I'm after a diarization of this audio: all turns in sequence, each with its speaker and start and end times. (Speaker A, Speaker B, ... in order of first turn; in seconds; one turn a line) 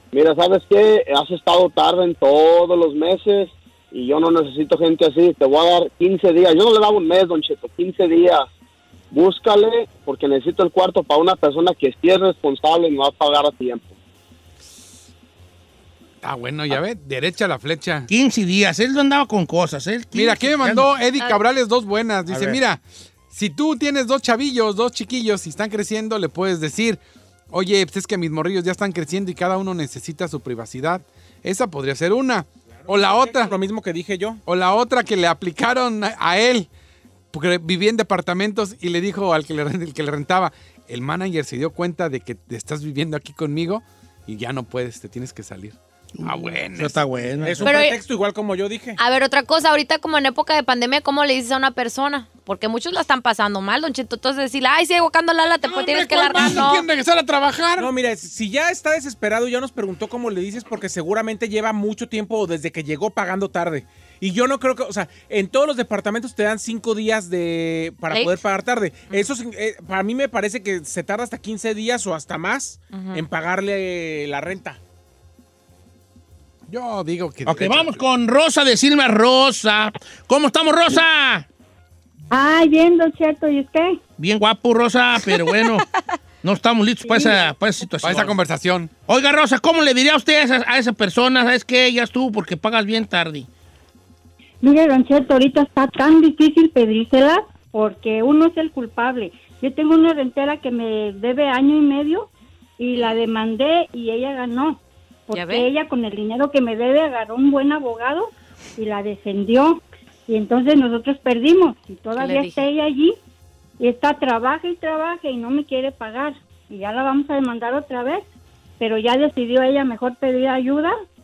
Speaker A: 0.1-8.4
Speaker A: 9.1-13.9
Speaker B: 16.2-18.1
Speaker C: 18.1-20.9
Speaker B: 20.1-33.5
Speaker C: 22.3-22.6
Speaker D: 32.9-34.4
Speaker B: 34.5-36.7
Speaker B: 37.3-47.3
Speaker C: 46.2-47.9
Speaker D: 47.4-49.0
Speaker E: 47.6-48.0
Speaker E: 49.0-56.9
Speaker B: 55.6-57.9
Speaker D: 57.8-74.8
Speaker E: 68.1-68.4
Speaker E: 72.9-73.2
Speaker B: 76.7-78.0
Speaker C: 77.5-81.5
Speaker F: 82.3-84.0
Speaker C: 84.2-85.9
Speaker C: 86.4-88.4
Speaker F: 87.1-87.4
Speaker B: 88.0-88.9
Speaker C: 89.1-93.5
Speaker F: 94.6-113.2
Speaker E: 105.3-105.7
Speaker E: 112.2-112.7
Speaker F: 113.8-118.3
Speaker F: 118.8-121.0